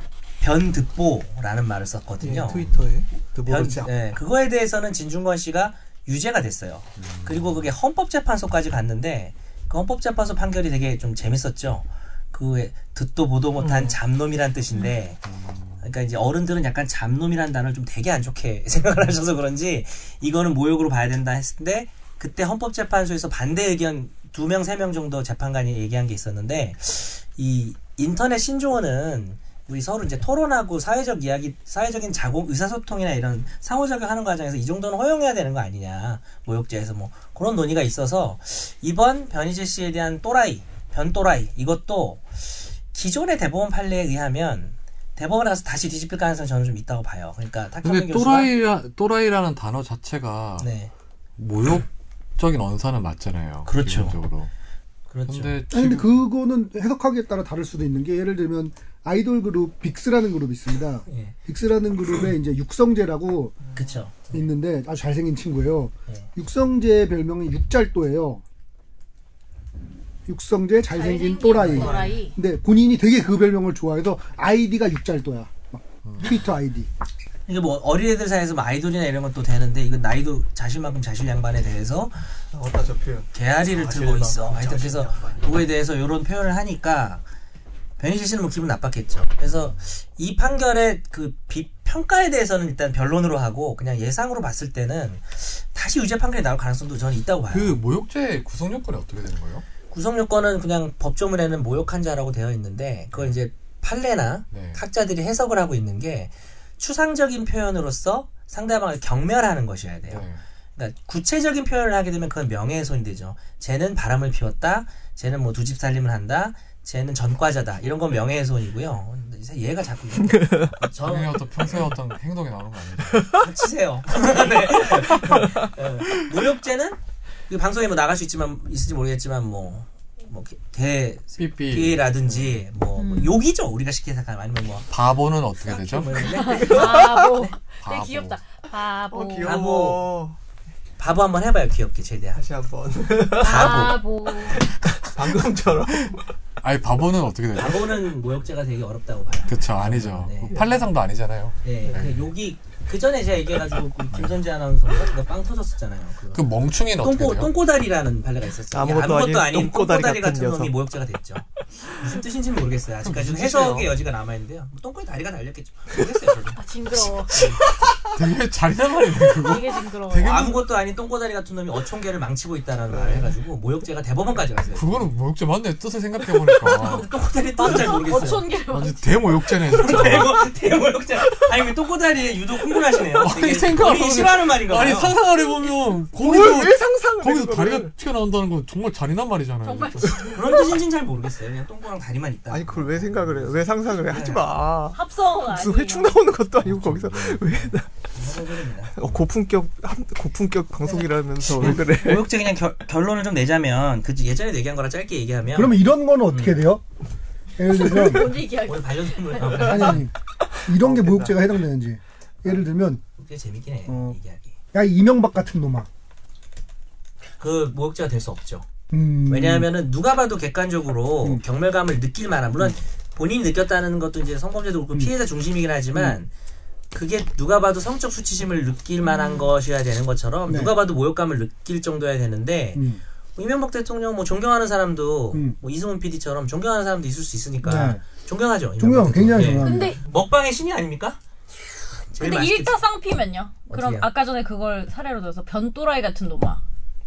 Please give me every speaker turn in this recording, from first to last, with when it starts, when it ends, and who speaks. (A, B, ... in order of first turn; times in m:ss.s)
0:00.4-0:02.7 A
0:02.2-0:03.9 B
0:02.5-0:02.8 C
0:03.4-0:15.2 A
0:07.0-0:07.6 C
0:13.6-0:13.9 B
0:15.3-0:15.8 C
0:15.8-0:48.5 A
0:47.8-0:50.7 C
0:50.6-0:50.9 A
0:51.4-0:54.5 C
0:53.6-0:54.2 A
0:55.1-0:55.6 A
0:55.3-0:56.1 C
0:55.7-1:03.6 D
1:01.1-1:01.3 A
1:03.6-1:03.9 B
1:03.7-1:04.4 A
1:04.3-1:08.4 D
1:10.3-1:16.9 D
1:10.9-1:12.4 E
1:11.6-1:12.2 A
1:11.7-1:12.0 B
1:16.0-1:16.3 C
1:17.5-1:22.2 A
1:22.5-1:25.5 B
1:23.3-1:27.2 A
1:28.0-1:37.8 A
1:37.5-1:39.6 C
1:39.9-2:01.8 A
1:44.5-1:44.8 C
1:50.1-1:50.4 C
2:00.3-2:00.7 B
2:01.0-2:03.4 C
2:03.4-2:14.9 A
2:04.8-2:05.7 B
2:11.4-2:12.6 C
2:13.0-2:13.4 E
2:14.9-2:16.3 C
2:15.6-2:17.1 A
2:16.2-2:19.6 E
2:16.4-2:17.3 B
2:17.8-2:18.4 C
2:19.1-2:20.4 B
2:19.4-2:20.1 A
2:21.0-2:22.4 A
2:22.3-2:26.3 B
2:23.3-2:24.0 A
2:23.4-2:24.6 E
2:26.6-2:28.0 C
2:27.6-2:30.6 A
2:29.5-2:32.2 C
2:31.6-2:36.4 A
2:36.3-2:37.5 C
2:37.0-2:46.6 A
2:38.7-2:40.7 B
2:43.0-2:44.0 C
2:46.5-2:47.4 E
2:47.4-2:50.6 C
2:49.4-2:50.5 E
2:50.2-2:55.1 A
2:52.9-2:53.3 B
2:54.7-2:57.1 C
2:56.6-2:58.5 A
2:57.6-2:59.1 E
2:58.7-3:00.5 C
2:59.6-3:05.2 A
3:03.2-3:10.4 C
3:06.2-3:07.9 B
3:09.6-3:10.7 E
3:10.3-3:14.5 A
3:12.5-3:17.9 B
3:12.8-3:13.6 C
3:14.9-3:16.2 E
3:16.6-3:17.7 C
3:18.1-3:18.9 A
3:18.9-3:22.3 B
3:21.4-3:26.7 A
3:25.5-3:26.8 D
3:27.6-3:28.4 D
3:27.7-3:29.9 E
3:28.6-3:30.1 A
3:29.6-3:30.1 D
3:30.6-3:33.0 D
3:30.8-3:31.3 B
3:33.2-3:34.5 A
3:33.9-3:34.2 D
3:34.7-3:35.9 D
3:37.4-3:38.7 A
3:38.9-3:39.7 D
3:39.3-3:46.3 A
3:46.9-3:52.8 A
3:49.0-3:49.5 E
3:50.5-3:50.7 D
3:52.7-3:53.0 D
3:53.4-4:01.2 A
3:57.6-3:58.0 D
3:58.8-3:59.9 D
3:59.6-4:00.0 E
4:02.1-4:02.8 A
4:02.2-4:06.6 E
4:03.7-4:04.1 A